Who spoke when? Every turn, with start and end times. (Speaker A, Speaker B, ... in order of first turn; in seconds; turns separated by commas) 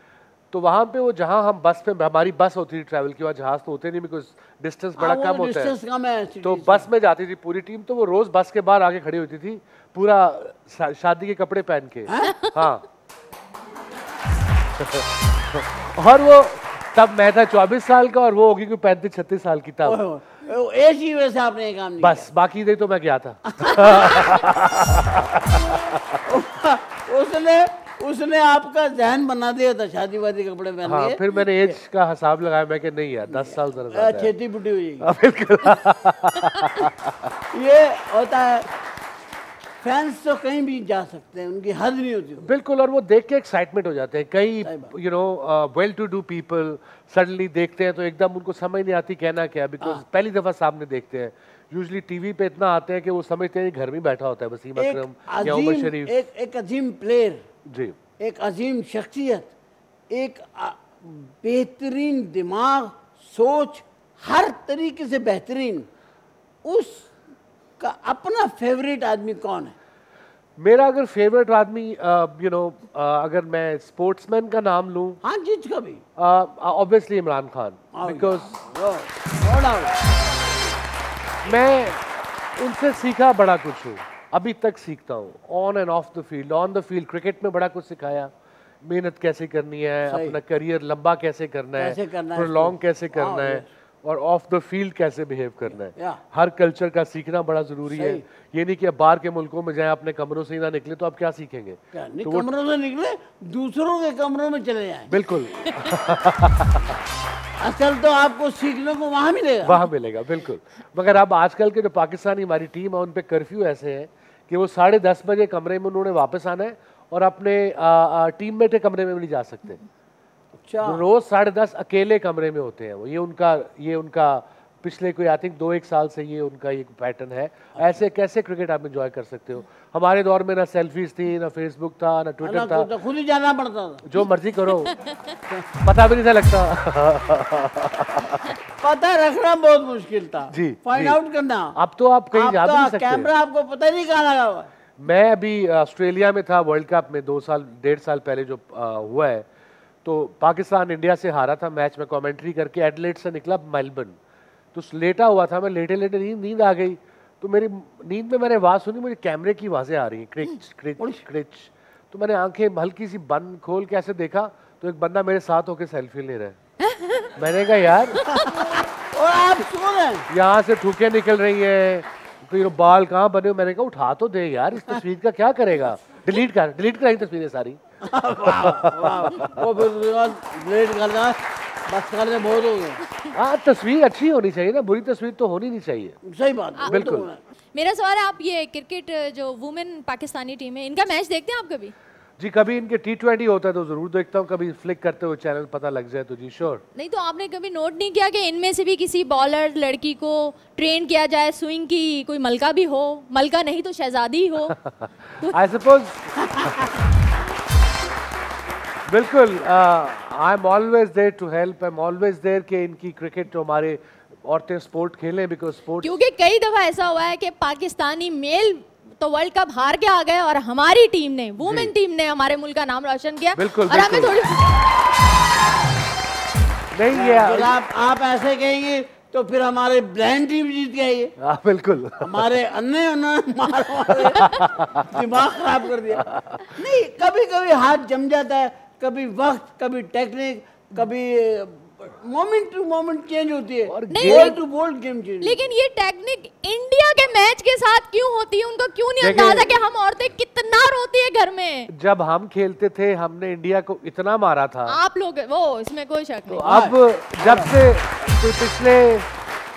Speaker A: 0.5-5.7, Speaker B: 5.0-6.9, Speaker A: 6.4-12.8, Speaker B: 12.1-12.5, Speaker A: 14.8-20.0, Speaker B: 19.8-22.3, Speaker A: 22.0-26.2, Speaker B: 23.5-24.4, Speaker B: 26.2-31.8, Speaker A: 30.8-34.3, Speaker B: 33.3-35.1, Speaker A: 35.0-37.3, Speaker B: 37.5-38.7, Speaker B: 39.8-42.5, Speaker A: 42.4-56.1, Speaker B: 44.6-44.9, Speaker B: 54.8-57.4, Speaker A: 57.7-58.0, Speaker B: 58.2-59.5, Speaker B: 60.1-65.9, Speaker B: 66.6-67.1, Speaker B: 67.8-69.7, Speaker A: 70.6-75.2, Speaker B: 75.2-76.0, Speaker A: 76.2-78.5, Speaker B: 77.9-80.0, Speaker A: 81.4-102.5, Speaker B: 90.1-90.4, Speaker B: 91.8-93.7, Speaker B: 95.9-96.2, Speaker B: 97.9-98.2, Speaker B: 101.9-105.1, Speaker A: 105.1-106.9, Speaker B: 107.6-109.8, Speaker A: 109.6-119.8, Speaker B: 120.6-121.0, Speaker A: 120.8-132.9, Speaker B: 132.4-134.0, Speaker A: 134.0-135.0, Speaker A: 135.8-138.6, Speaker B: 138.8-141.8, Speaker A: 140.5-141.2, Speaker A: 141.7-143.3, Speaker B: 142.3-144.7, Speaker A: 145.0-149.4, Speaker A: 150.0-154.2, Speaker A: 154.7-166.6, Speaker A: 167.3-168.2, Speaker B: 168.2-170.3, Speaker A: 170.3-177.8, Speaker B: 178.0-183.0, Speaker A: 178.4-179.7, Speaker A: 183.3-186.2, Speaker B: 186.2-187.4, Speaker C: 186.8-187.1, Speaker A: 186.9-187.3, Speaker C: 187.7-191.9, Speaker A: 192.4-196.8, Speaker C: 196.9-204.7, Speaker A: 204.7-206.9, Speaker B: 206.4-206.9, Speaker A: 209.1-216.1, Speaker C: 216.0-224.8, Speaker A: 221.6-221.9, Speaker A: 223.6-224.4, Speaker A: 226.9-227.8, Speaker B: 227.1-231.3, Speaker A: 231.4-232.5, Speaker B: 232.2-245.7, Speaker A: 234.1-235.1, Speaker A: 236.2-236.7, Speaker A: 243.9-244.6, Speaker C: 244.1-244.6, Speaker C: 245.4-251.9, Speaker A: 249.2-249.8, Speaker A: 251.9-255.0, Speaker C: 254.9-256.7, Speaker A: 256.4-259.3, Speaker B: 256.6-257.7